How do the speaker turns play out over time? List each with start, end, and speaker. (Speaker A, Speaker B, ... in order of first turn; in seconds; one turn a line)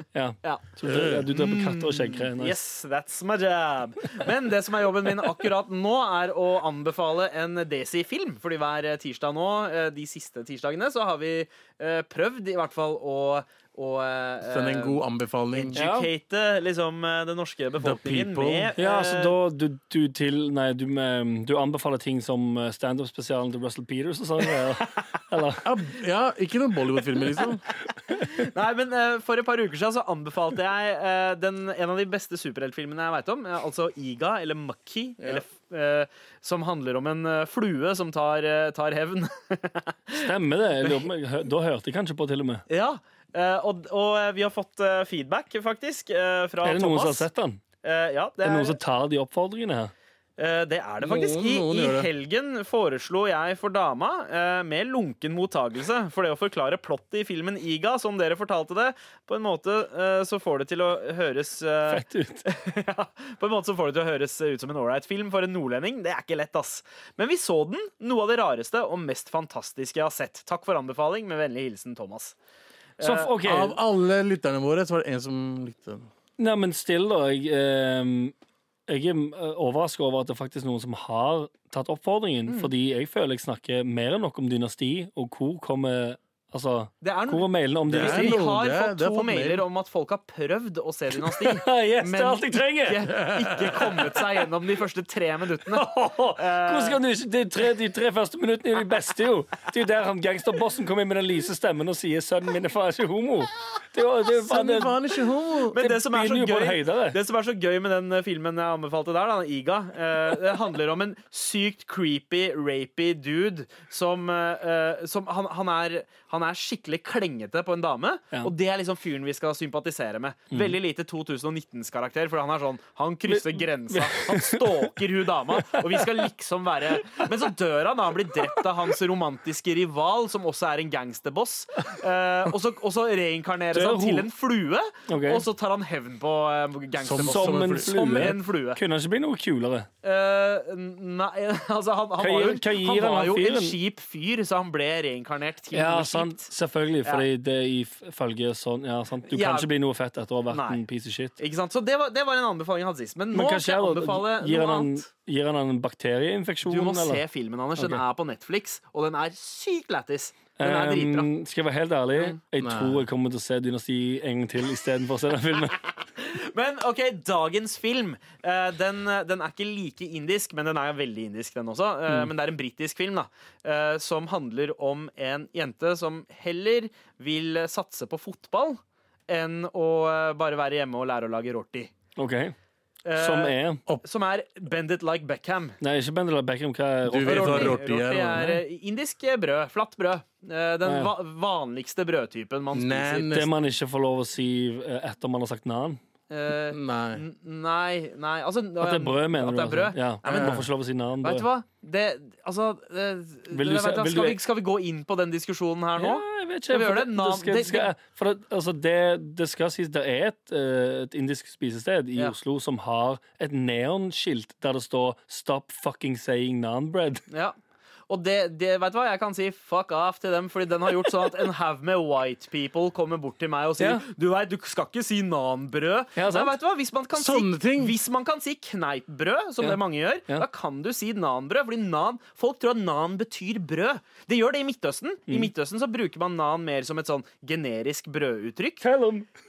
Speaker A: 0.1-2.6
Speaker B: 0.4-15.0
Speaker C: 0.8-1.3
Speaker C: 14.5-15.8
Speaker B: 15.5-19.4
Speaker A: 15.8-16.1
Speaker C: 17.8-18.7
Speaker A: 18.8-25.7
Speaker C: 25.6-27.6
Speaker B: 28.2-40.3
Speaker A: 40.2-42.6
Speaker B: 40.8-41.1
Speaker B: 42.7-47.3
Speaker A: 46.6-47.6
Speaker B: 47.8-48.8
Speaker A: 48.4-49.9
Speaker B: 50.4-72.3
Speaker C: 51.0-52.1
Speaker A: 61.9-62.4
Speaker B: 73.0-73.4
Speaker A: 73.0-73.8
Speaker C: 73.4-76.1
Speaker A: 76.4-78.3
Speaker A: 78.9-88.4
Speaker B: 87.0-97.0
Speaker C: 87.9-89.7
Speaker A: 91.2-93.1
Speaker C: 93.1-94.2
Speaker A: 95.7-105.0
Speaker C: 104.4-105.8
Speaker B: 105.7-138.8
Speaker A: 105.8-107.2
Speaker A: 123.3-124.9
Speaker A: 125.6-126.2
Speaker A: 133.7-134.3
Speaker A: 135.1-135.5
Speaker C: 137.0-138.4
Speaker A: 137.2-139.9
Speaker B: 140.0-146.5
Speaker A: 142.2-143.8
Speaker A: 145.7-151.4
Speaker B: 149.3-149.7
Speaker B: 150.5-150.8
Speaker B: 151.4-155.1
Speaker A: 153.3-157.2
Speaker B: 156.7-161.3
Speaker A: 160.6-165.8
Speaker C: 162.6-163.1
Speaker B: 166.2-181.9
Speaker A: 182.2-182.6
Speaker B: 183.1-185.8
Speaker A: 183.2-183.8
Speaker A: 185.8-187.8
Speaker C: 187.1-188.6
Speaker B: 187.2-193.3
Speaker A: 190.8-191.1
Speaker C: 192.7-193.5
Speaker A: 193.3-196.0
Speaker B: 196.3-200.7
Speaker C: 196.7-197.2
Speaker A: 198.8-201.5
Speaker C: 200.3-200.7
Speaker B: 201.2-207.9
Speaker A: 203.5-204.4
Speaker A: 206.0-217.2
Speaker B: 217.3-217.6
Speaker B: 218.1-238.8
Speaker A: 223.8-224.0
Speaker A: 226.2-226.5
Speaker C: 227.2-228.0
Speaker A: 229.6-230.5
Speaker A: 238.8-239.3